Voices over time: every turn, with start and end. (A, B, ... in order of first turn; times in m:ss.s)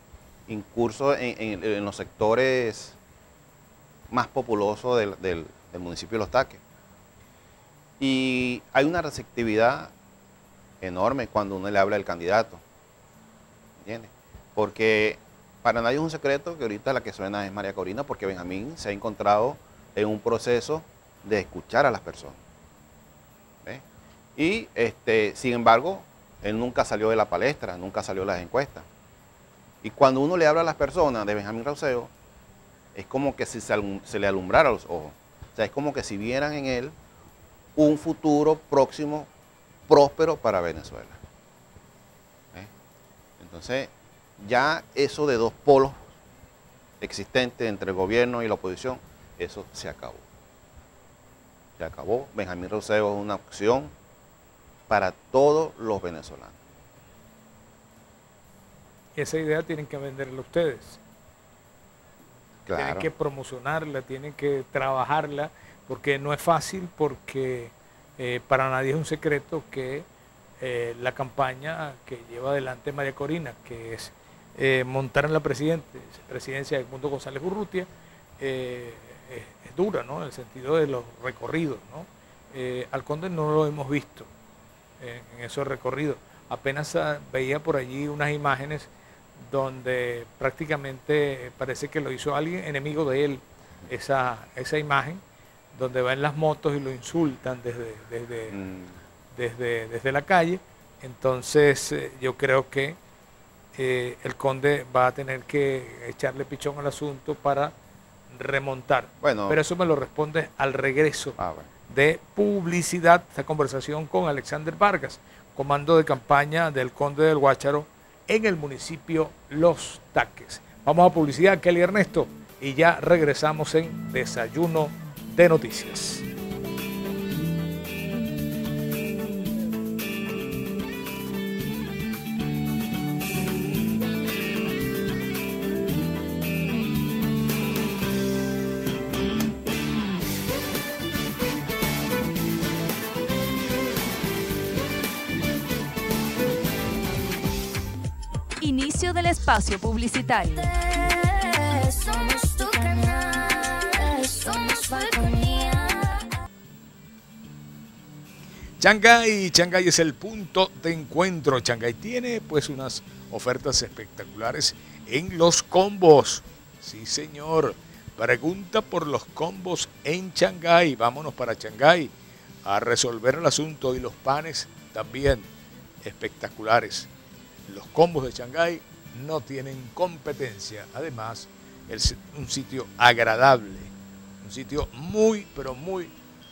0:00.5-0:02.9 A
0:04.1-0:06.6 A
0:08.0-0:09.9 A
0:10.8-0:12.6 A
0:13.8-0:22.4 A
0:24.4-0:28.8 A
0:29.8-0:32.1 A
0:32.9-0:36.9 A
0:37.8-0:39.3 A
0:39.9-0:41.2 A
0:43.4-0:46.1 A
0:47.0-0:50.2 A
0:51.8-0:53.9 A
0:54.9-0:56.6 A
0:59.2-1:01.0 B
1:02.6-1:03.1 A
1:02.7-1:10.0 B
1:10.6-1:17.9 B
1:18.4-1:24.3 B
1:25.0-1:28.9 B
1:29.5-1:35.2 B
1:35.7-1:38.6 B
1:38.5-1:38.9 A
1:39.4-1:43.0 B
1:43.8-1:47.7 B
1:48.3-1:51.4 B
1:49.2-1:49.6 A
1:51.4-1:51.7 A
1:51.9-2:06.2 B
2:28.6-2:30.7 C
2:38.8-2:52.1 B
2:52.6-2:55.5 B
2:56.0-2:57.1 B
2:57.7-3:06.1 B